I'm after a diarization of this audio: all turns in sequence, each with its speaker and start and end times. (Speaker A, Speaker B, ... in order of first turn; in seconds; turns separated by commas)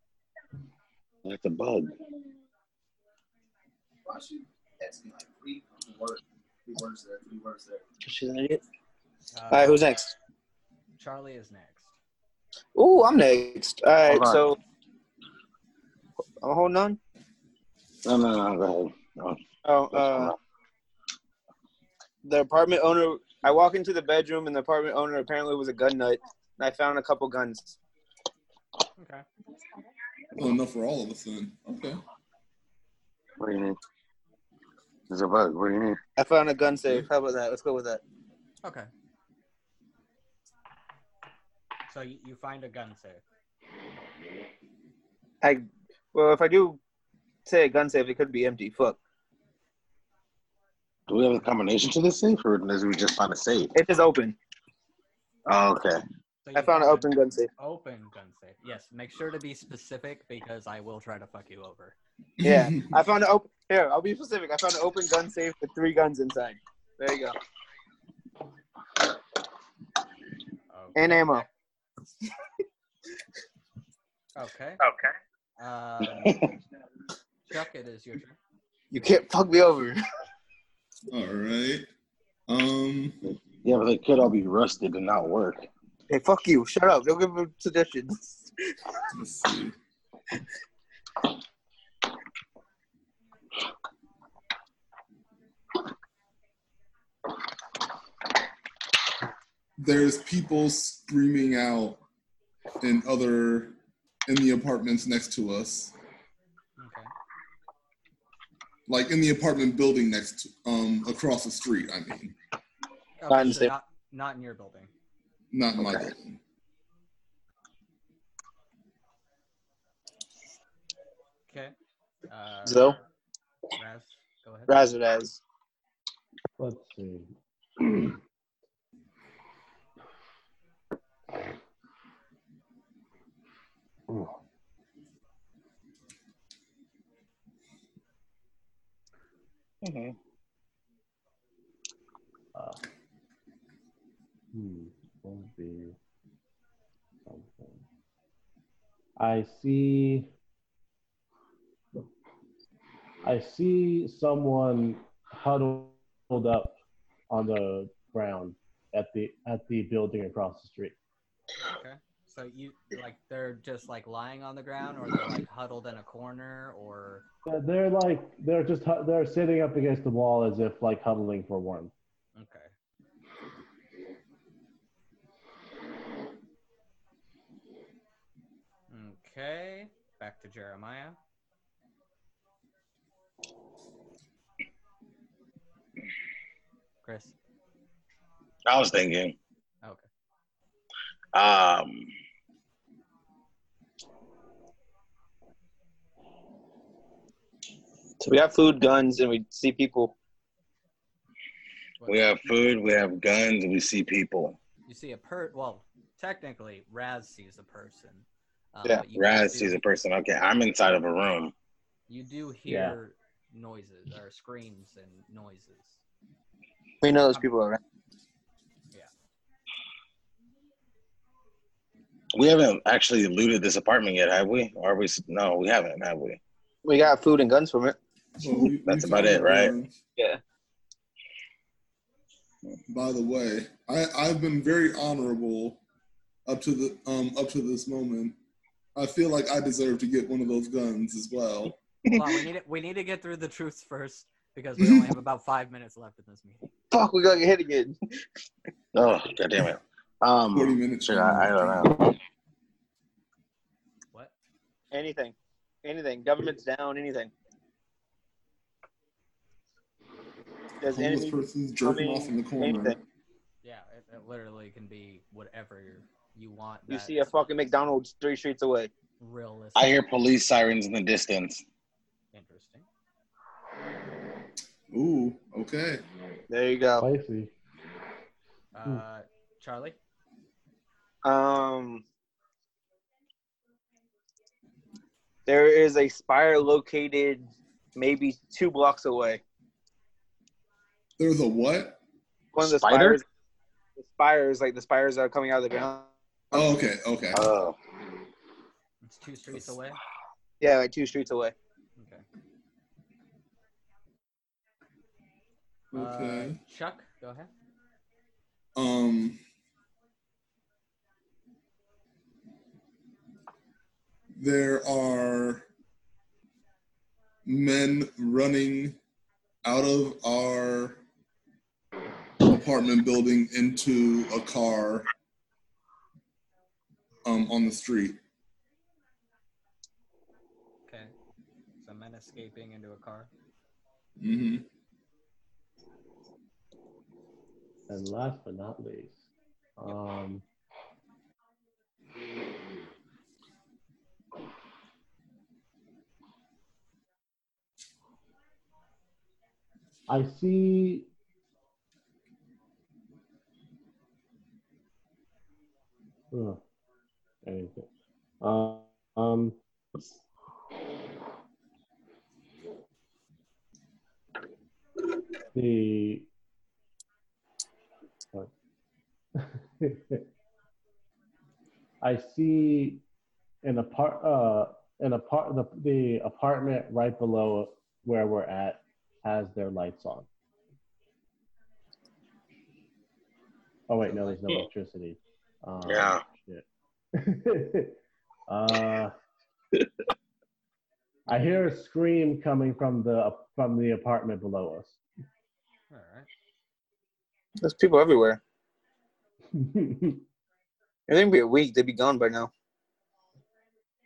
Speaker A: 1.2-1.9, Speaker B: 4.1-8.6, Speaker C: 9.3-9.9, Speaker B: 9.5-10.1, Speaker C: 11.0-12.0, Speaker B: 12.8-14.6, Speaker A: 14.1-14.4, Speaker B: 16.4-17.0, Speaker A: 18.1-20.4, Speaker B: 19.6-20.3, Speaker B: 22.2-27.8, Speaker C: 29.0-29.2, Speaker D: 30.4-32.0, Speaker A: 33.4-33.8, Speaker A: 35.1-36.0, Speaker B: 36.2-38.0, Speaker C: 38.6-38.9, Speaker C: 41.9-43.2, Speaker B: 45.4-46.8, Speaker B: 47.5-49.0, Speaker A: 51.1-53.7, Speaker B: 53.8-54.4, Speaker A: 55.5-56.0, Speaker C: 56.4-62.0, Speaker B: 56.5-57.5, Speaker D: 62.4-62.9, Speaker B: 62.4-67.4, Speaker C: 70.7-71.4, Speaker B: 71.0-71.5, Speaker C: 74.4-74.8, Speaker C: 75.6-76.5, Speaker A: 76.3-76.5, Speaker C: 77.5-78.4, Speaker B: 78.9-80.0, Speaker D: 81.1-81.9, Speaker D: 82.5-83.2, Speaker A: 83.6-85.7, Speaker B: 86.1-88.5, Speaker D: 89.1-89.8, Speaker D: 99.8-102.0, Speaker D: 102.8-103.8, Speaker D: 104.3-105.9, Speaker C: 106.8-107.1, Speaker D: 108.9-112.3, Speaker C: 113.2-114.9, Speaker B: 113.3-113.7, Speaker D: 115.5-116.4, Speaker A: 115.8-116.1, Speaker C: 121.5-121.8, Speaker C: 122.3-123.0, Speaker B: 122.7-123.0, Speaker C: 123.8-124.8, Speaker B: 124.7-125.4, Speaker E: 126.6-128.2, Speaker A: 139.8-140.2, Speaker E: 142.5-142.8, Speaker E: 144.5-146.0, Speaker E: 147.3-147.8, Speaker E: 149.2-150.3, Speaker E: 153.2-156.7, Speaker E: 157.3-160.9, Speaker C: 161.6-167.3, Speaker E: 167.4-171.9, Speaker C: 172.3-172.7, Speaker C: 178.9-181.2, Speaker C: 187.0-187.3, Speaker A: 188.7-189.4, Speaker A: 191.3-192.1, Speaker B: 198.2-200.1, Speaker C: 202.0-202.5, Speaker A: 202.1-204.6, Speaker C: 204.9-209.8, Speaker A: 209.2-211.5, Speaker C: 212.1-216.0, Speaker E: 212.7-213.0, Speaker B: 217.0-217.8, Speaker A: 222.3-226.4, Speaker B: 226.8-228.0, Speaker D: 228.4-229.9, Speaker A: 228.8-229.7, Speaker D: 232.9-235.8, Speaker D: 236.5-238.4, Speaker D: 238.9-241.8, Speaker C: 242.1-246.7, Speaker D: 244.8-245.1, Speaker B: 246.9-248.0, Speaker A: 248.9-252.1, Speaker D: 250.5-252.1, Speaker B: 254.9-257.3, Speaker B: 260.8-263.0, Speaker D: 260.9-263.0, Speaker C: 263.6-267.3, Speaker B: 266.9-268.9, Speaker C: 269.2-270.0, Speaker A: 269.8-271.6, Speaker C: 272.3-272.9, Speaker D: 274.9-276.1, Speaker B: 276.5-277.1, Speaker E: 277.0-277.5, Speaker C: 278.7-280.0, Speaker B: 281.2-282.0, Speaker B: 285.5-289.4, Speaker D: 291.2-292.0, Speaker B: 292.5-293.2, Speaker A: 292.6-293.2, Speaker B: 294.0-296.7, Speaker D: 296.5-297.4, Speaker A: 297.3-297.8, Speaker C: 299.0-300.0, Speaker B: 300.6-301.6, Speaker C: 302.0-302.2, Speaker D: 305.9-306.6, Speaker C: 305.9-307.5, Speaker D: 308.8-309.4, Speaker D: 314.4-315.6, Speaker D: 317.5-319.0, Speaker D: 319.6-321.0, Speaker D: 322.4-325.1, Speaker D: 327.2-328.2, Speaker C: 330.9-331.1, Speaker C: 331.8-333.3, Speaker D: 334.2-334.6, Speaker E: 337.9-339.2, Speaker E: 339.8-340.4, Speaker E: 350.1-351.1, Speaker E: 356.3-356.6, Speaker E: 357.4-357.9, Speaker E: 358.4-359.6, Speaker E: 365.5-366.3, Speaker E: 369.4-370.2, Speaker E: 372.0-373.0, Speaker E: 373.6-380.3, Speaker E: 383.9-386.6, Speaker C: 384.1-384.6, Speaker A: 385.8-386.2, Speaker E: 387.1-388.0, Speaker E: 388.5-389.1, Speaker E: 391.3-395.0, Speaker C: 395.9-396.3, Speaker B: 397.6-398.4, Speaker E: 399.5-400.2, Speaker B: 401.1-402.5